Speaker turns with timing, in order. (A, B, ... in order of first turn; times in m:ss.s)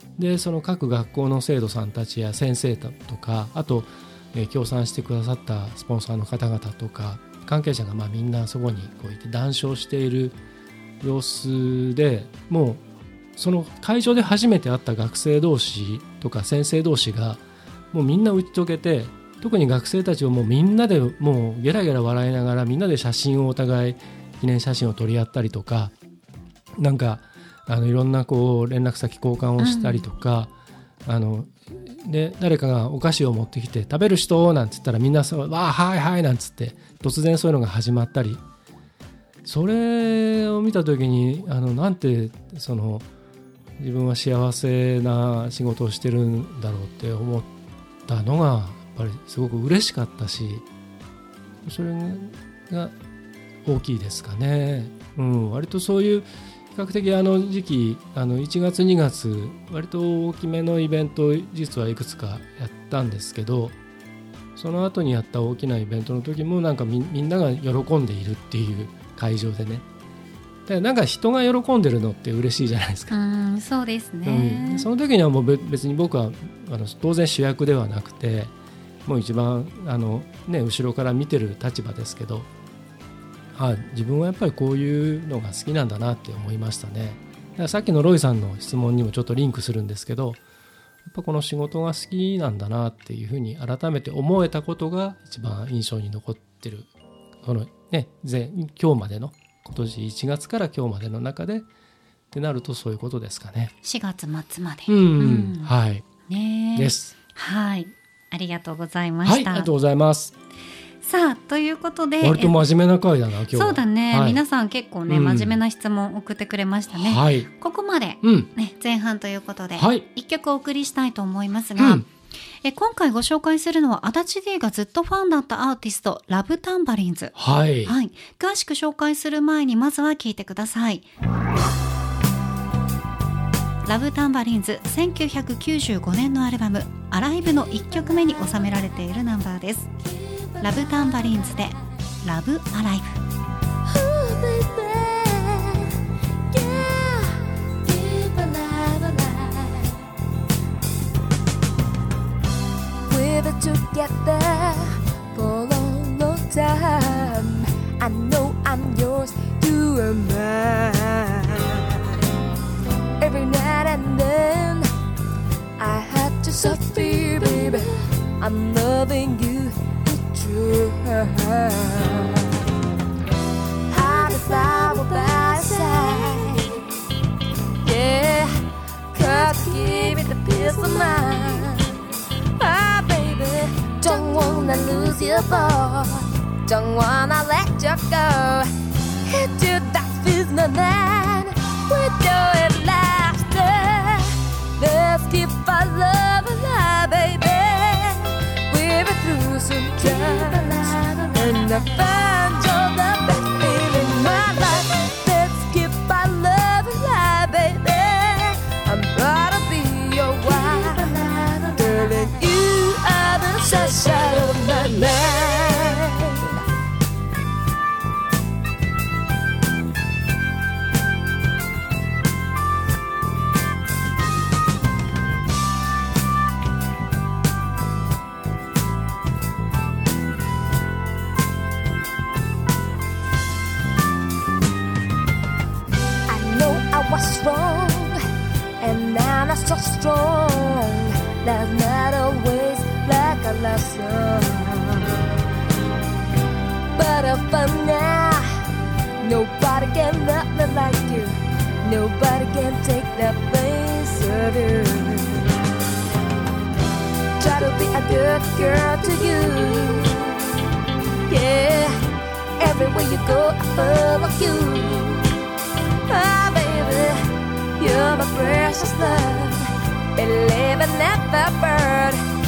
0:00.2-0:10.4 A
0:11.0-0:12.8 A
0:13.4-0:25.9 A
0:26.8-0:30.5 A
0:29.6-0:30.1 B
0:31.1-0:38.4 A
0:39.4-0:43.1 A
0:43.8-0:47.5 A
0:48.1-0:50.6 A
0:51.6-0:53.0 A
0:53.6-1:03.8 A
1:04.6-1:09.9 A
1:10.7-1:13.2 A
1:13.1-1:14.9 B
1:14.3-1:18.5 A
1:19.1-1:22.5 A
1:23.5-1:30.4 A
1:31.1-1:36.9 A
1:37.4-1:41.7 A
1:42.3-1:43.7 A
1:43.8-1:45.7 B
1:44.9-1:46.1 A
1:46.3-1:49.7 B
1:46.8-1:47.1 A
1:49.2-1:50.3 A
1:51.0-1:52.6 B
1:52.2-1:54.4 A
1:53.5-2:02.1 B
1:55.1-1:55.6 A
1:56.9-1:57.5 A
1:58.2-1:58.5 A
1:59.8-2:00.1 A
2:01.8-2:02.0 A
2:02.6-2:07.3 B
2:07.4-2:08.0 A
2:07.8-2:11.1 B
2:13.9-2:19.9 B
2:20.6-2:23.2 B
2:23.9-2:26.0 C
2:26.5-2:29.9 C
2:33.1-2:42.2 C
2:43.2-2:44.9 C
2:45.8-2:52.7 C
2:53.9-2:56.9 C
2:57.8-2:58.6 C
2:59.1-3:02.1 C
3:02.6-3:08.7 C
3:09.2-3:36.6 C
3:56.3-3:58.2 C
3:58.8-4:05.3 C
4:07.0-4:08.5 C
4:09.2-4:15.6 C
4:17.4-4:20.6 C
4:21.3-4:22.0 C
4:22.6-4:25.4 C
4:26.1-4:32.2 C